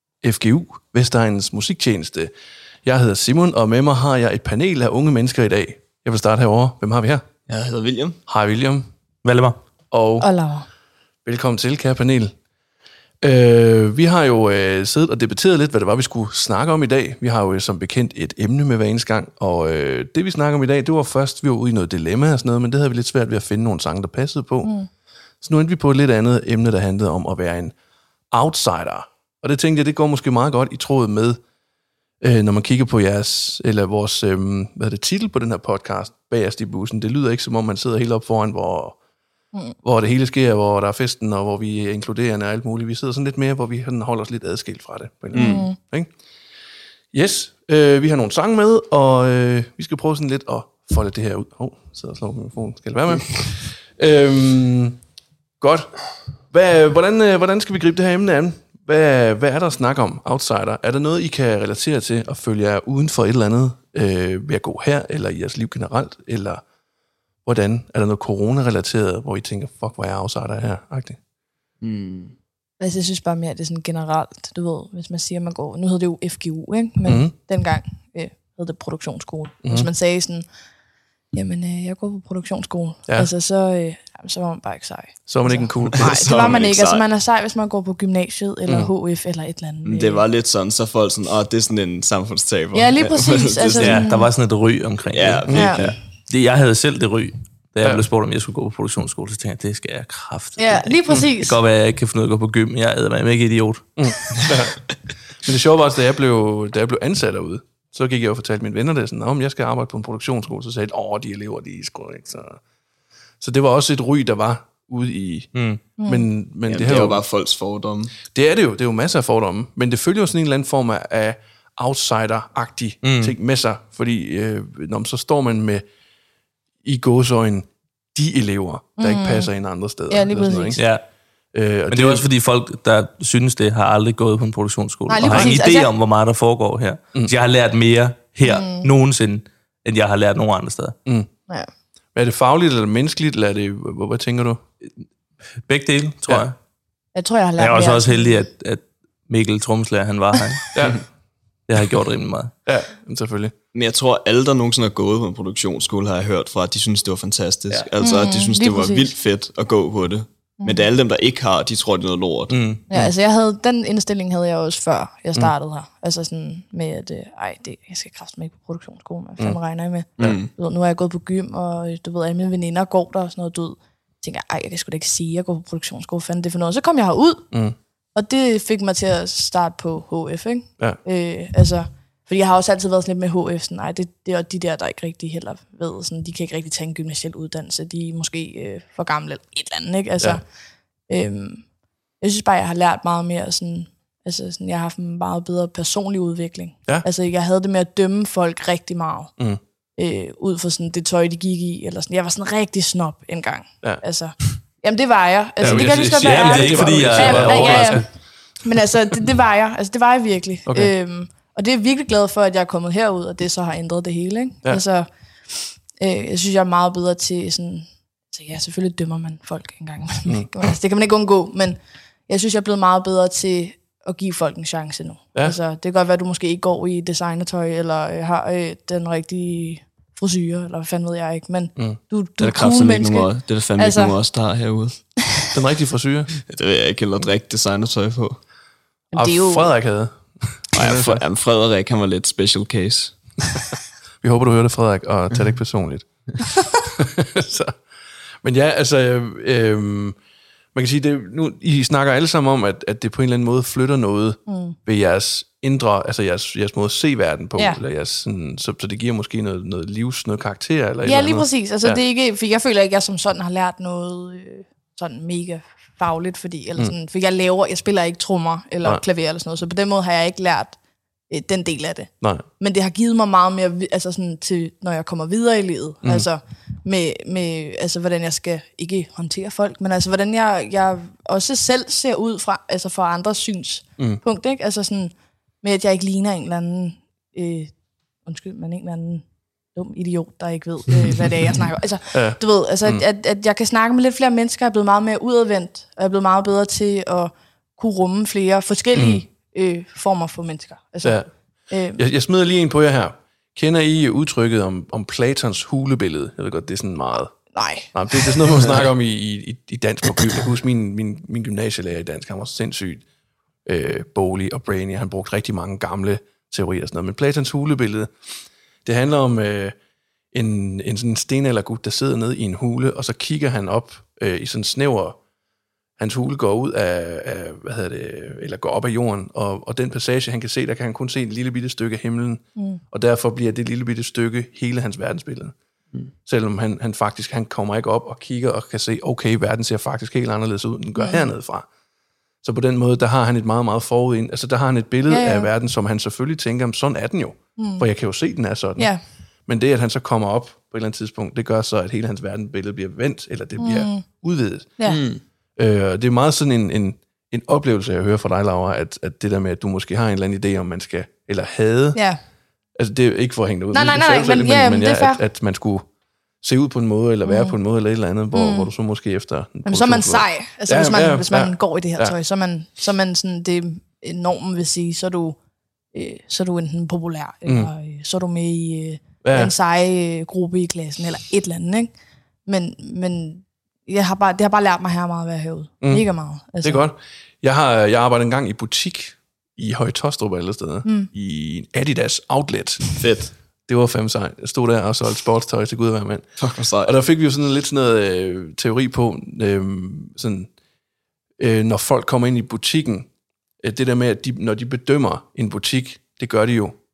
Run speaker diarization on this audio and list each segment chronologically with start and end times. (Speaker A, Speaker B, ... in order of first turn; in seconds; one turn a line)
Speaker A: 0.2-2.3
Speaker A: 2.8-7.2
Speaker B: 7.5-8.2
Speaker A: 8.3-8.9
Speaker C: 9.2-9.6
Speaker A: 9.9-10.3
Speaker D: 10.2-10.7
Speaker A: 11.2-12.3
Speaker A: 13.2-24.7
Speaker A: 25.4-27.8
Speaker A: 28.3-31.4
Speaker A: 32.2-39.0
Speaker A: 39.8-46.1
Speaker B: 45.3-45.6
Speaker D: 45.3-45.8
Speaker A: 47.1-55.0
Speaker A: 55.6-55.9
Speaker A: 56.5-66.6
Speaker A: 67.5-71.2
Speaker B: 71.8-72.3
Speaker D: 72.8-80.5
Speaker A: 77.1-77.3
Speaker A: 79.6-79.9
Speaker D: 81.3-90.3
Speaker A: 85.3-86.2
Speaker B: 86.0-87.0
Speaker B: 89.8-94.1
Speaker D: 92.7-94.3
Speaker C: 93.8-103.9
Speaker B: 95.1-96.0
Speaker D: 95.5-95.8
Speaker D: 100.6-101.6
Speaker A: 104.0-104.8
Speaker A: 105.4-112.6
Speaker A: 113.4-117.2
Speaker C: 115.5-115.8
Speaker D: 116.0-116.3
Speaker B: 116.7-118.2
Speaker A: 118.3-125.8
Speaker C: 123.0-123.3
Speaker A: 126.8-130.8
Speaker D: 129.0-129.5
Speaker D: 130.1-130.8
Speaker C: 130.8-131.0
Speaker A: 131.5-132.2
Speaker C: 131.9-140.9
Speaker D: 135.1-135.9
Speaker A: 135.3-135.5
Speaker D: 138.4-138.9
Speaker A: 142.2-144.6
Speaker C: 145.7-146.6
Speaker D: 147.2-148.5
Speaker C: 147.6-150.9
Speaker A: 150.8-151.0
Speaker C: 151.7-152.5
Speaker A: 152.7-153.5
Speaker B: 153.7-162.6
Speaker D: 158.0-159.1
Speaker D: 160.6-160.9
Speaker A: 162.5-163.1
Speaker D: 162.9-177.5
Speaker B: 170.2-170.5
Speaker A: 177.5-177.8
Speaker D: 178.2-190.4
Speaker D: 191.1-191.7
Speaker D: 192.2-199.3
Speaker D: 200.0-215.1
Speaker A: 205.6-208.1
Speaker C: 205.6-208.1
Speaker D: 215.7-234.1
Speaker B: 232.4-235.1
Speaker A: 235.5-236.3
Speaker B: 236.4-238.4
Speaker D: 239.1-239.7
Speaker A: 239.1-241.2
Speaker B: 240.8-243.2
Speaker A: 244.2-246.1
Speaker A: 246.7-247.8
Speaker A: 248.4-250.2
Speaker A: 250.7-262.0
Speaker D: 254.5-254.8
Speaker D: 261.0-270.8
Speaker D: 271.3-287.7
Speaker A: 272.2-272.5
Speaker D: 288.2-302.0
Speaker A: 292.1-293.0
Speaker A: 298.9-299.2
Speaker A: 301.0-301.3
Speaker A: 302.0-307.4
Speaker D: 307.5-308.3
Speaker A: 307.9-313.1
Speaker A: 313.7-318.1
Speaker A: 318.9-319.8
Speaker A: 320.3-325.2
Speaker A: 326.0-335.6
Speaker A: 336.2-341.7
Speaker D: 341.0-341.2
Speaker A: 342.4-348.9
Speaker D: 345.1-345.5
Speaker D: 347.6-347.9
Speaker A: 349.5-354.8
Speaker D: 353.6-354.0
Speaker B: 354.9-355.2
Speaker A: 355.6-362.0
Speaker D: 361.9-362.2
Speaker A: 362.8-365.9
Speaker D: 363.7-365.2
Speaker A: 366.4-372.1
Speaker D: 367.3-367.5
Speaker D: 368.3-368.7
Speaker D: 369.6-375.4
Speaker D: 375.9-381.9
Speaker A: 377.5-377.7
Speaker A: 379.2-379.5
Speaker D: 382.5-386.9
Speaker A: 386.6-393.0
Speaker D: 390.9-391.1
Speaker B: 393.0-393.3
Speaker A: 393.7-400.5
Speaker B: 396.4-396.9
Speaker A: 401.4-403.1
Speaker A: 403.6-406.8